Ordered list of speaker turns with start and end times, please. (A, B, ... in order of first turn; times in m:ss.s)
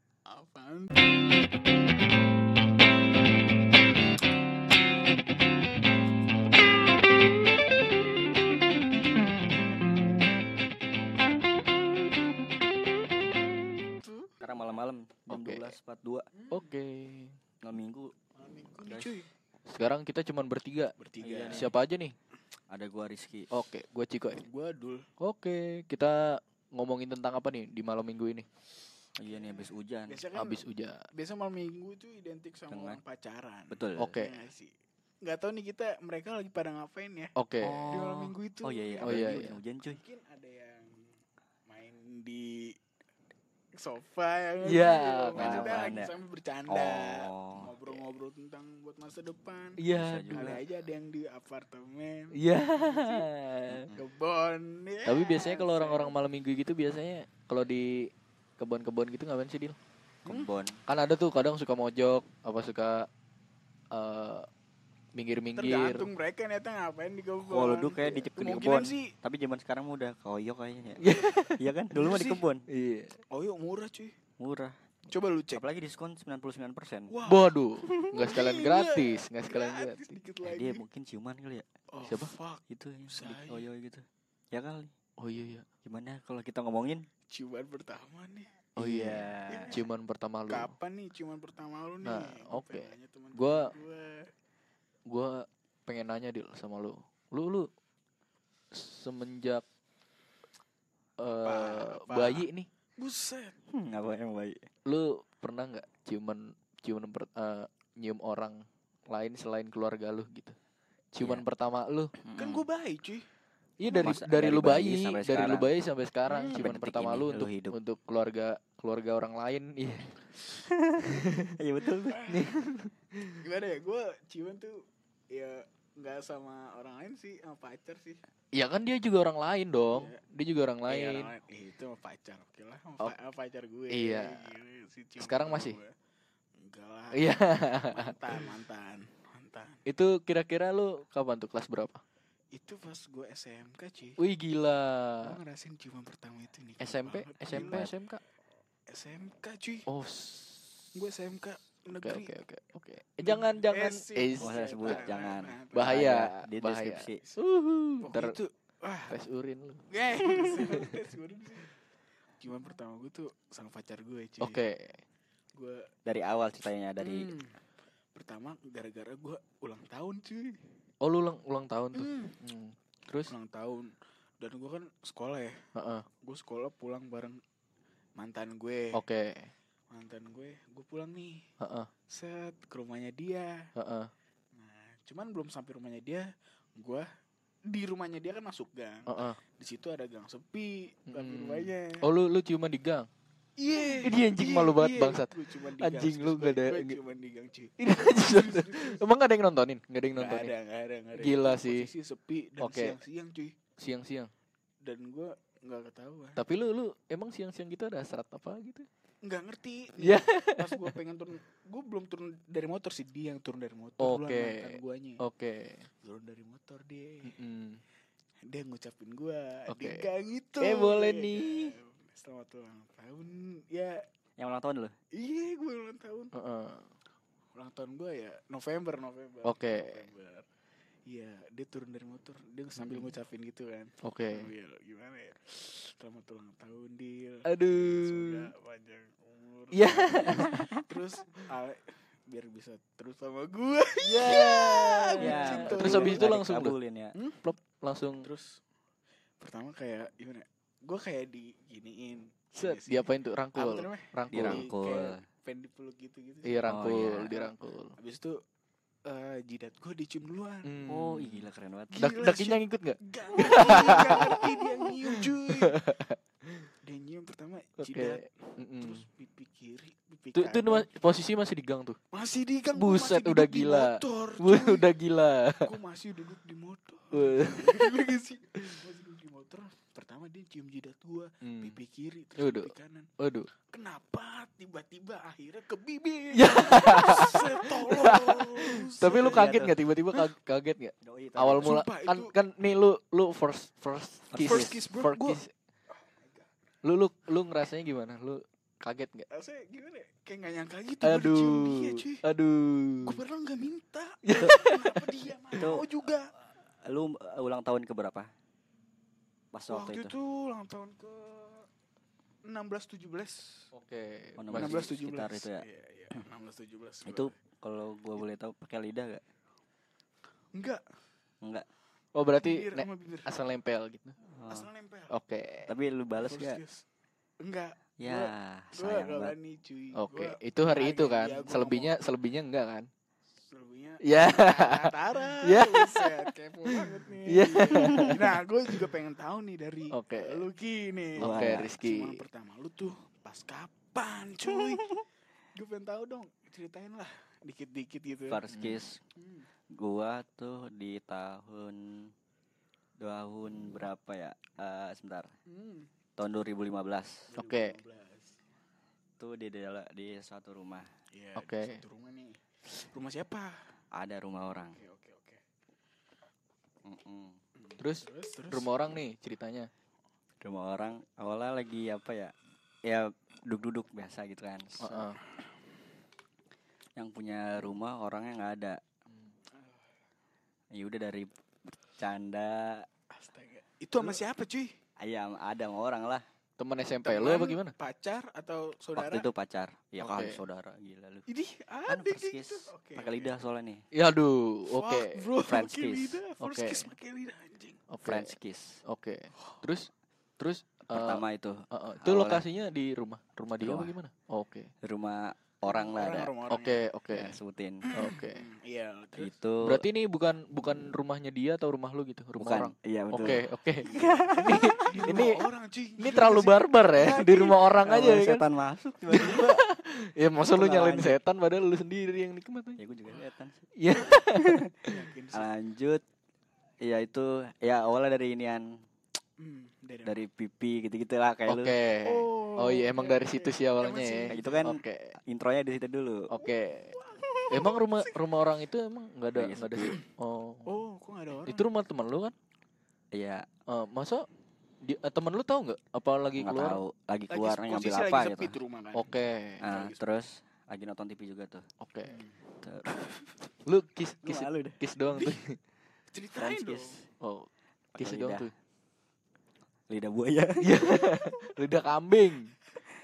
0:00.3-0:01.2 A
0:13.9-0:14.5 A
0:14.4-0:16.3 B
0:15.3-0:15.7 C
0:16.5-0:17.4 C
0:17.6-0:18.1 B
0:18.4-0:19.3 A
0:18.8-0:19.1 B
0:19.7-0:21.0 C
0:21.0-0:21.7 A
0:21.2-0:21.7 B
0:21.5-0:22.2 C
0:22.7-0:23.5 B
0:23.5-0:24.4 C
0:24.4-0:25.1 A
0:25.2-0:28.5 C
0:29.2-0:30.2 B
0:29.3-0:34.7 A
0:30.3-0:31.0 C
0:32.7-0:33.0 B
0:33.7-0:34.2 B
0:34.0-0:34.4 C
0:35.2-0:37.3 A
0:37.4-0:38.0 C
0:37.6-0:40.0 B
0:37.9-0:41.1 A
0:39.0-0:39.6 C
0:41.7-0:42.8 A
0:43.8-0:49.8 A
0:44.6-0:45.9 C
0:45.4-0:46.2 B
0:46.7-0:48.0 B
0:49.8-0:50.6 C
0:49.9-0:50.6 B
0:50.3-0:53.3 A
0:52.3-0:53.9 C
0:53.7-0:54.0 B
0:53.9-0:56.2 A
0:55.1-0:59.8 C
1:00.3-1:00.8 B
1:00.9-1:03.1 C
1:03.9-1:04.5 C
1:05.2-1:06.1 C
1:05.6-1:09.1 A
1:07.5-1:12.6 B
1:11.0-1:11.6 C
1:11.9-1:12.4 A
1:12.7-1:13.2 C
1:13.3-1:14.2 A
1:14.4-1:14.8 B
1:15.1-1:15.7 A
1:15.5-1:17.1 B
1:17.1-1:17.6 A
1:17.3-1:20.1 C
1:17.8-1:18.2 B
1:18.2-1:20.8 A
1:20.4-1:21.7 B
1:21.9-1:23.7 A
1:22.0-1:22.3 C
1:22.7-1:24.9 B
1:25.2-1:25.7 C
1:25.8-1:27.1 B
1:27.3-1:28.9 A
1:28.8-1:30.7 C
1:28.8-1:29.8 B
1:29.5-1:29.8 A
1:30.5-1:34.3 A
1:32.0-1:33.7 C
1:35.1-1:37.7 C
1:38.7-1:39.7 C
1:41.2-1:42.7 C
1:41.4-1:43.6 A
1:43.7-1:44.7 B
1:44.9-1:50.6 C
1:51.1-1:52.1 C
1:52.2-1:52.6 B
1:52.4-1:53.3 A
1:53.8-2:00.2 C
1:53.9-1:55.7 B
1:56.3-1:56.7 A
1:56.5-1:57.8 B
2:00.6-2:02.3 B
2:01.1-2:01.5 C
2:02.1-2:02.5 A
2:02.3-2:03.4 C
2:03.4-2:04.8 A
2:05.3-2:08.2 A
2:08.5-2:11.3 C
2:09.9-2:10.2 A
2:10.9-2:15.9 A
2:13.9-2:14.5 C
2:15.2-2:15.8 C
2:16.6-2:19.8 A
2:17.1-2:18.5 C
2:19.9-2:22.0 C
2:22.5-2:24.2 A
2:24.2-2:25.4 C
2:25.2-2:27.9 A
2:26.8-2:28.2 C
2:27.5-2:27.9 B
2:28.9-2:29.9 A
2:29.9-2:30.9 C
2:31.0-2:32.3 A
2:31.9-2:38.4 C
2:33.2-2:36.1 A
2:34.4-2:37.2 B
2:38.0-2:39.2 A
2:39.1-2:40.9 C
2:39.9-2:41.7 A
2:42.4-2:44.6 A
2:44.4-2:45.0 C
2:45.5-2:45.9 A
2:46.1-2:47.3 B
2:47.0-2:47.6 A
2:48.1-2:50.6 A
2:51.0-2:53.3 C
2:51.9-2:52.4 A
2:53.3-2:55.6 A
2:55.8-2:56.1 C
2:56.2-2:57.4 A
2:58.2-2:59.0 A
2:58.9-2:59.5 C
2:59.9-3:01.4 A
3:01.6-3:01.9 C
3:02.1-3:03.6 A
3:03.8-3:04.1 C
3:04.6-3:07.1 A
3:07.7-3:12.1 A
3:09.1-3:09.4 C
3:11.1-3:13.1 C
3:13.6-3:19.0 A
3:14.0-3:17.0 C
3:17.8-3:20.5 C
3:20.2-3:23.5 A
3:21.2-3:21.9 C
3:22.6-3:23.0 C
3:23.8-3:24.3 C
3:24.8-3:26.4 A
3:26.4-3:28.9 C
3:29.2-3:35.2 A
3:30.0-3:30.8 C
3:34.0-3:35.9 C
3:36.0-3:37.4 A
3:37.3-3:37.8 C
3:38.5-3:44.0 A
3:39.7-3:40.1 C
3:40.6-3:41.7 C
3:44.4-3:45.0 B
3:45.1-3:46.3 A
3:46.3-3:46.9 C
3:47.6-3:50.5 A
3:49.4-3:50.0 C
3:51.1-4:06.4 A
3:54.0-3:54.5 C
3:57.4-3:58.5 C
3:59.7-4:00.7 C
4:04.0-4:06.8 C
4:05.2-4:07.2 B
4:07.2-4:07.4 A
4:07.4-4:08.3 C
4:08.2-4:08.6 A
4:09.4-4:18.4 A
4:12.6-4:14.7 C
4:14.3-4:15.2 B
4:16.4-4:18.0 C
4:16.7-4:17.3 B
4:19.1-4:20.7 A
4:20.6-4:21.5 C
4:20.9-4:22.0 B
4:21.9-4:25.8 A
4:22.0-4:26.7 C
4:26.8-4:28.2 A
4:27.8-4:29.0 C
4:28.8-4:30.9 A
4:30.3-4:32.0 C
4:32.1-4:34.9 A
4:32.8-4:35.7 C
4:35.6-4:43.1 A
4:37.1-4:38.0 C
4:41.4-4:41.8 C
4:42.4-4:43.5 C
4:43.7-4:50.3 A
4:46.4-4:55.5 C
4:49.0-4:49.8 B
4:51.0-4:51.7 B
4:51.6-4:52.4 A
4:54.3-4:54.7 B
4:54.4-4:55.4 A
4:55.9-4:56.5 A
4:56.8-4:59.3 C
4:59.3-5:02.2 A
5:01.0-5:03.2 C
5:03.0-5:06.3 A
5:04.2-5:05.8 C
5:05.6-5:05.8 B
5:06.9-5:08.3 B
5:09.5-5:10.2 B
5:09.7-5:11.7 A
5:12.5-5:13.7 A
5:13.7-5:14.9 C
5:14.4-5:15.6 B
5:14.6-5:17.3 A
5:17.1-5:19.2 B
5:20.5-5:20.8 A
5:22.2-5:24.2 C
5:22.4-5:23.3 A
5:24.3-5:24.7 B
5:24.5-5:25.1 A
5:25.1-5:25.7 C
5:25.7-5:26.6 B
5:26.2-5:26.8 A
5:27.4-5:31.9 A
5:28.0-5:29.4 B
5:29.9-5:32.9 C
5:33.4-5:44.9 A
5:34.0-5:38.2 C
5:37.7-5:38.2 B
5:39.9-5:40.4 C
5:41.2-5:41.7 B
5:41.2-5:42.2 C
5:45.6-5:48.4 A
5:48.3-5:49.0 B
5:48.5-5:48.8 C
5:49.2-5:49.5 A
5:49.8-5:52.1 B
5:53.0-5:55.3 B
5:55.5-5:55.9 A
5:56.2-5:57.3 B
5:57.3-5:58.4 A
5:57.4-5:57.8 C
5:59.2-6:00.9 B
6:01.1-6:03.6 A
6:01.4-6:01.8 C
6:03.9-6:04.8 B
6:04.8-6:05.4 A
6:06.8-6:07.4 B
6:07.6-6:08.8 A
6:07.8-6:09.7 C
6:10.4-6:12.3 B
6:12.8-6:15.1 B
6:14.8-6:15.2 C
6:17.0-6:18.8 B
6:20.7-6:22.9 B
6:23.1-6:24.7 A
6:25.0-6:26.2 B
6:26.6-6:27.7 C
6:27.0-6:29.3 A
6:29.0-6:31.2 B
6:30.0-6:30.4 C
6:31.3-6:33.4 A
6:31.9-6:33.8 B
6:33.9-6:35.3 C
6:34.7-6:37.8 A
6:35.4-6:36.2 B
6:36.4-6:36.9 C
6:37.9-6:44.7 C
6:38.0-6:38.8 B
6:40.9-6:42.4 B
6:43.6-6:43.9 B
6:44.8-6:46.3 B
6:45.6-6:46.8 A
6:46.5-6:47.4 C
6:47.1-6:47.9 B
6:47.9-6:49.4 A
6:47.9-6:48.4 C
6:49.2-6:49.8 B
6:49.6-6:55.4 C
6:52.4-6:55.2 B
6:53.8-6:57.2 A
6:56.0-6:58.4 C
6:56.9-6:59.6 B
6:59.1-7:02.8 C
7:00.5-7:01.2 B
7:02.8-7:04.6 B
7:03.8-7:04.6 C
7:04.9-7:05.5 A
7:05.3-7:06.0 B
7:06.8-7:08.7 B
7:09.4-7:10.2 A
7:10.0-7:11.7 B
7:11.5-7:15.2 C
7:12.0-7:14.7 A
7:14.3-7:16.3 B
7:16.3-7:16.9 C
7:16.4-7:18.2 A
7:17.2-7:17.7 B
7:17.5-7:20.7 C
7:19.3-7:20.0 B
7:20.7-7:21.7 A
7:21.4-7:22.4 C
7:23.1-7:23.5 B
7:23.7-7:24.3 C
7:24.8-7:26.8 C
7:26.4-7:28.6 B
7:27.3-7:29.1 A
7:28.9-7:29.6 C
7:29.6-7:31.6 B
7:29.6-7:30.1 A
7:31.8-7:32.2 C
7:32.0-7:32.4 A
7:32.6-7:33.0 B
7:33.6-7:35.6 C
7:34.2-7:34.8 B
7:35.1-7:35.4 A
7:36.1-7:37.0 A
7:36.4-7:37.1 B
7:37.2-7:38.5 C
7:38.0-7:38.5 B
7:39.9-7:40.9 B
7:40.6-7:42.5 C